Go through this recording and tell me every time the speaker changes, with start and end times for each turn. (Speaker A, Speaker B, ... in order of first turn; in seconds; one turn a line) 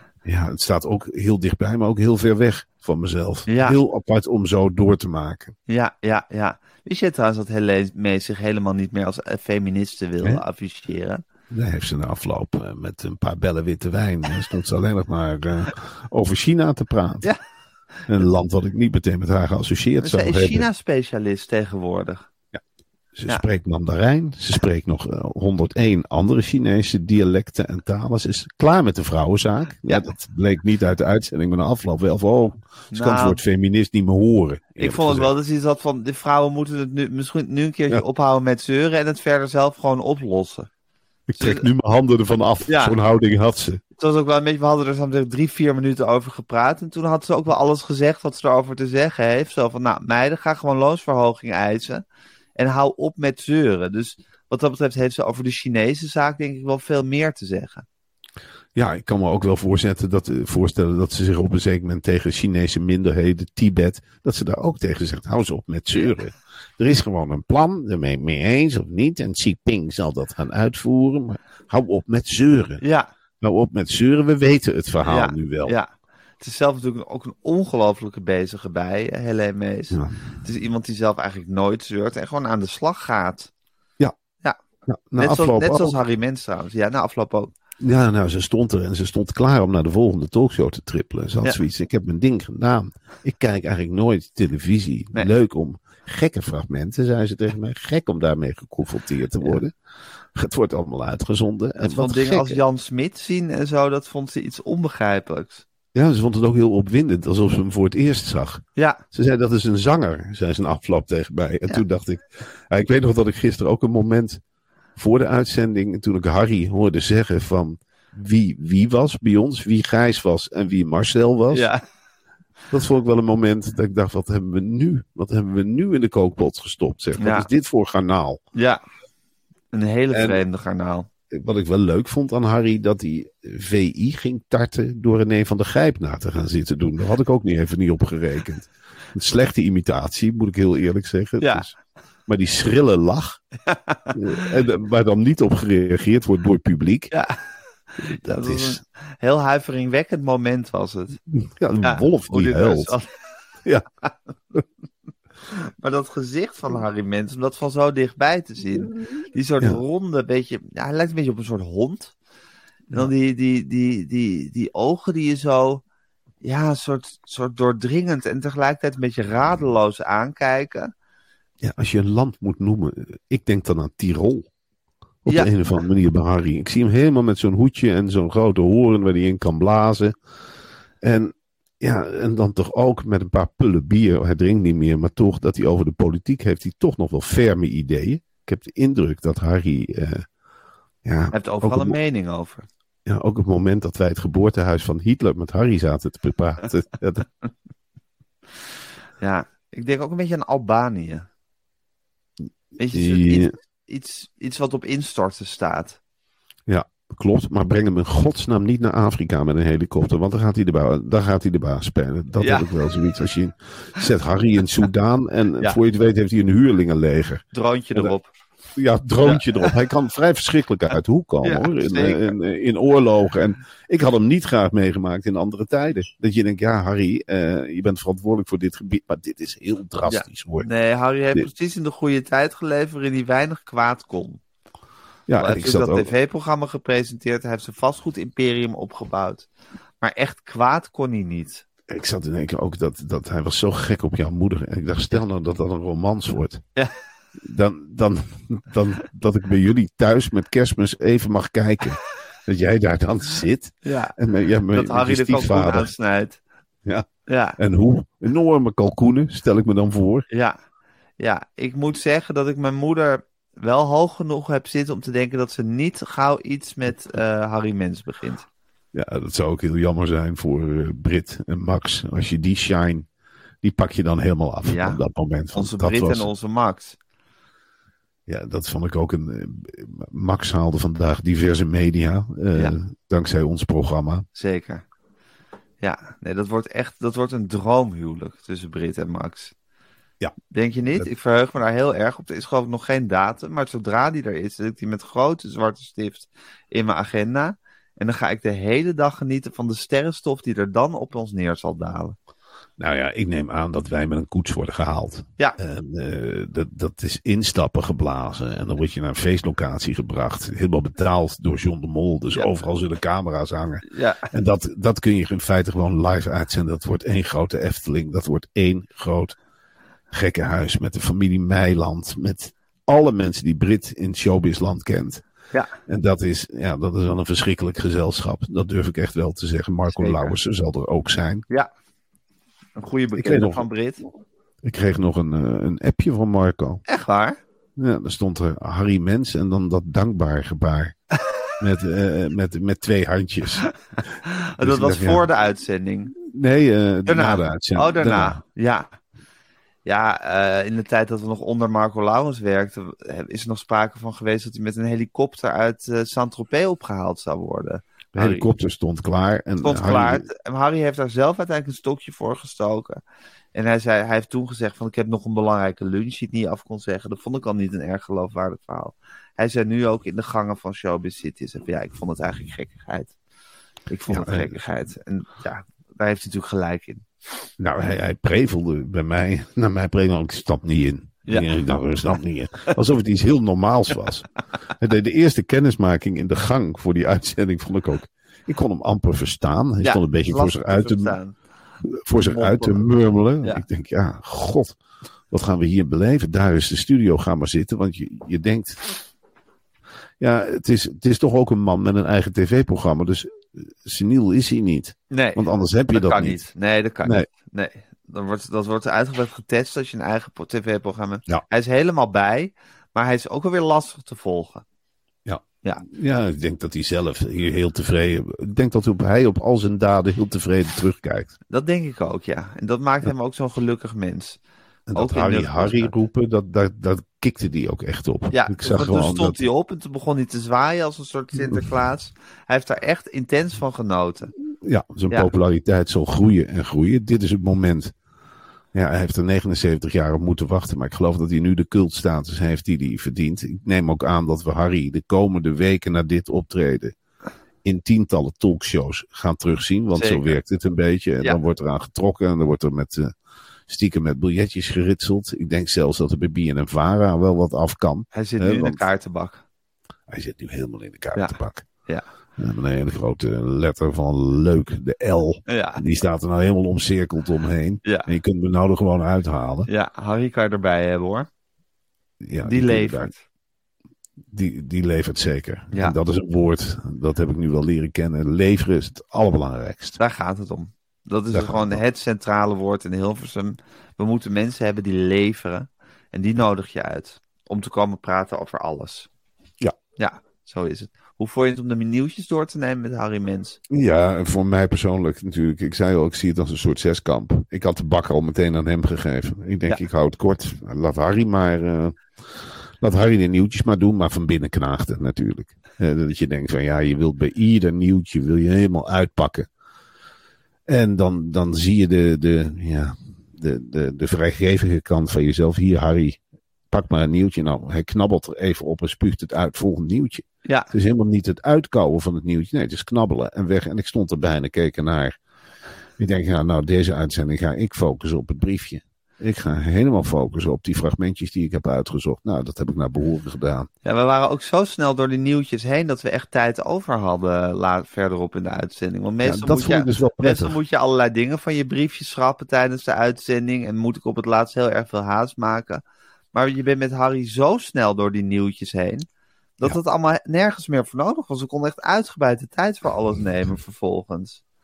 Speaker A: 0.2-5.5
Speaker B: 3.5-3.8
Speaker B: 5.7-11.2
Speaker A: 11.5-17.3
Speaker A: 18.1-20.7
Speaker B: 20.0-22.3
Speaker A: 23.1-35.3
Speaker B: 32.9-33.4
Speaker B: 34.8-40.7
Speaker A: 41.3-43.8
Speaker B: 41.4-41.6
Speaker B: 42.7-43.0
Speaker B: 44.0-52.0
Speaker B: 52.6-57.9
Speaker A: 58.8-72.8
Speaker B: 72.8-73.1
Speaker A: 73.4-75.8
Speaker B: 75.0-75.9
Speaker B: 76.4-83.5
Speaker A: 84.9-86.0
Speaker B: 85.2-87.5
Speaker A: 87.8-99.7
Speaker A: 100.3-102.6
Speaker B: 101.8-105.6
Speaker A: 105.9-114.4
Speaker B: 108.8-109.0
Speaker A: 115.0-121.7
Speaker B: 121.5-121.8
Speaker A: 122.7-128.4
Speaker B: 127.2-127.5
Speaker B: 128.6-128.8
Speaker B: 129.7-131.1
Speaker A: 130.1-130.4
Speaker A: 131.3-141.8
Speaker A: 142.3-143.4
Speaker B: 143.7-144.2
Speaker A: 144.1-147.1
Speaker B: 147.1-147.4
Speaker B: 148.0-151.2
Speaker A: 148.0-148.8
Speaker A: 151.3-152.9
Speaker B: 151.8-153.1
Speaker B: 155.5-162.1
Speaker B: 162.9-165.8
Speaker B: 166.4-170.9
Speaker A: 171.6-174.5
Speaker A: 175.2-180.2
Speaker A: 181.0-190.3
Speaker A: 191.0-192.0
Speaker B: 191.3-192.7
Speaker A: 193.1-197.3
Speaker B: 199.2-201.3
Speaker B: 202.8-206.0
Speaker A: 202.9-203.5
Speaker A: 206.7-217.4
Speaker B: 212.4-212.7
Speaker B: 217.5-218.3
Speaker A: 218.8-230.7
Speaker B: 219.2-219.7
Speaker B: 221.4-222.3
Speaker B: 230.1-234.4
Speaker A: 235.3-236.1
Speaker B: 235.4-239.5
Speaker B: 240.0-241.6
Speaker A: 241.9-246.6
Speaker A: 247.4-255.9
Speaker B: 253.8-254.2
Speaker B: 254.7-256.4
Speaker A: 256.9-260.3
Speaker B: 257.3-257.6
Speaker B: 260.3-260.6
Speaker B: 261.2-268.5
Speaker A: 268.9-273.1
Speaker A: 273.6-276.3
Speaker B: 274.6-275.0
Speaker B: 275.5-277.0
Speaker A: 278.3-284.3
Speaker B: 284.3-284.8
Speaker B: 285.8-289.5
Speaker B: 290.5-302.2
Speaker A: 302.8-319.4
Speaker B: 313.9-314.3
Speaker A: 320.1-325.2
Speaker A: 325.9-331.4
Speaker B: 329.9-330.4
Speaker B: 332.8-334.0
Speaker A: 333.1-333.7
Speaker A: 334.6-336.8
Speaker B: 336.9-337.4
Speaker A: 337.8-340.9
Speaker A: 341.6-343.7
Speaker B: 344.6-346.1
Speaker A: 344.6-345.3
Speaker A: 346.1-348.4
Speaker B: 347.1-348.9
Speaker B: 349.9-358.5
Speaker A: 358.2-360.3
Speaker B: 359.6-363.0
Speaker B: 363.5-373.1
Speaker B: 373.9-377.1
Speaker A: 374.1-374.6
Speaker A: 377.6-384.3
Speaker A: 384.8-391.2
Speaker B: 389.8-391.4
Speaker A: 391.8-394.8
Speaker B: 392.2-392.8
Speaker A: 395.3-398.9
Speaker A: 400.2-406.4
Speaker B: 405.1-405.4
Speaker B: 405.9-414.6
Speaker A: 415.3-421.4
Speaker B: 421.5-424.4
Speaker A: 424.9-429.4
Speaker B: 424.9-425.9
Speaker B: 428.3-434.3
Speaker A: 431.4-431.6
Speaker A: 434.6-437.9
Speaker A: 438.7-446.9
Speaker A: 447.6-453.1
Speaker B: 449.9-450.4
Speaker A: 453.7-458.8
Speaker B: 458.1-459.4
Speaker A: 460.1-461.6
Speaker B: 461.1-462.1
Speaker A: 462.4-469.7
Speaker B: 465.5-465.8
Speaker B: 467.9-468.1
Speaker B: 469.7-471.3
Speaker A: 472.2-473.1
Speaker B: 472.4-473.2
Speaker A: 474.3-480.0
Speaker B: 480.0-489.1
Speaker A: 481.3-481.8
Speaker B: 490.0-493.6
Speaker A: 493.7-509.5
Speaker A: 510.7-516.2
Speaker A: 516.7-525.2
Speaker B: 520.5-520.7
Speaker A: 526.0-533.7
Speaker B: 533.9-545.8
Speaker A: 539.2-540.6
Speaker B: 546.3-549.1
Speaker B: 549.6-554.4